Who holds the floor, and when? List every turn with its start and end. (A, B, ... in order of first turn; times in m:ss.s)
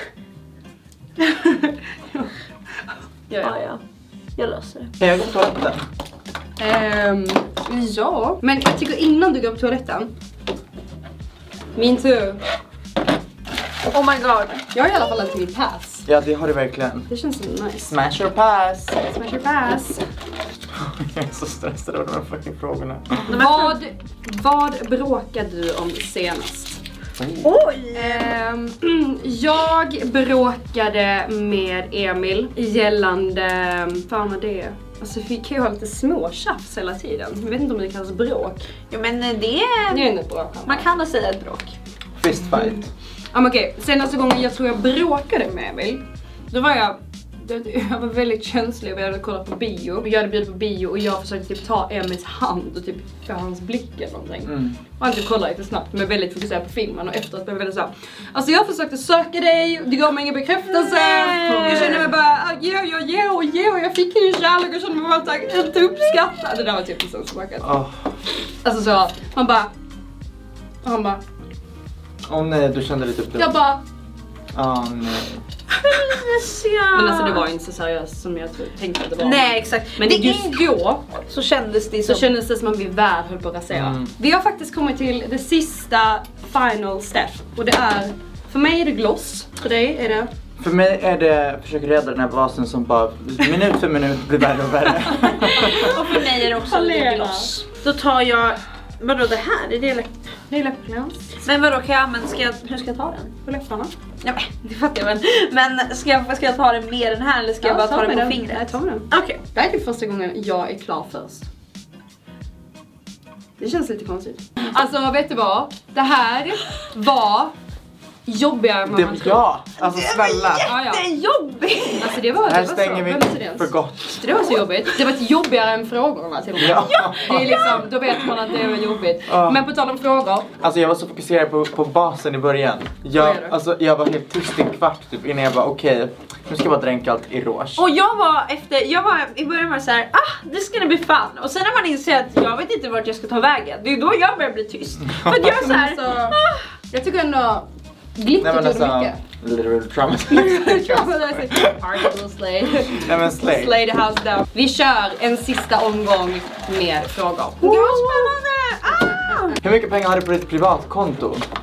0:01.2-0:02.3 A
0:03.3-0:03.6 A
0:03.4-0:03.8 B
0:04.4-0:04.9 B
0:05.0-0:05.8 C
0:06.6-0:10.1 A
0:11.8-0:12.4 A
0:13.9-0:14.6 B
0:14.7-0:16.1 A
0:16.1-0:17.1 C
0:17.1-0:17.9 A
0:17.9-0:19.0 C
0:19.0-0:20.0 A
0:20.7-0:23.3 C
0:23.3-0:23.8 B
0:23.3-0:26.8 A
0:27.2-0:27.6 C
0:27.4-0:28.3 B
0:27.9-0:38.6 A
0:38.9-0:40.1 B
0:39.9-0:40.9 A
0:40.6-0:41.8 B
0:42.2-0:42.9 C
0:42.5-0:42.8 A
0:43.3-1:07.7 A
0:54.5-0:54.8 C
1:00.7-1:02.1 B
1:07.6-1:08.1 C
1:08.6-1:09.7 A
1:10.8-1:11.2 A
1:12.3-1:13.6 C
1:13.4-1:13.8 A
1:14.5-1:15.4 C
1:15.8-1:17.4 B
1:16.9-1:21.0 A
1:19.2-1:20.6 B
1:21.3-1:22.3 B
1:22.1-1:30.3 A
1:23.7-1:24.1 C
1:30.6-1:35.9 C
1:35.2-1:37.5 A
1:35.6-1:40.1 B
1:40.5-1:41.3 A
1:41.4-1:43.4 B
1:43.4-1:43.9 A
1:44.2-1:49.4 B
1:47.6-1:51.5 A
1:53.6-1:57.5 A
1:58.3-1:59.4 A
1:58.9-2:00.7 C
1:59.8-2:02.2 B
2:00.6-2:01.0 A
2:02.0-2:10.5 A
2:02.4-2:04.4 C
2:06.6-2:07.9 C
2:06.8-2:07.8 B
2:09.3-2:09.7 C
2:10.6-2:17.8 C
2:13.2-2:13.5 A
2:17.8-2:26.6 B
2:25.2-2:26.4 A
2:26.9-2:29.2 A
2:28.4-2:32.0 C
2:30.3-2:38.4 A
2:32.8-2:33.8 C
2:37.6-2:39.6 B
2:39.0-2:39.6 A
2:39.6-2:41.4 C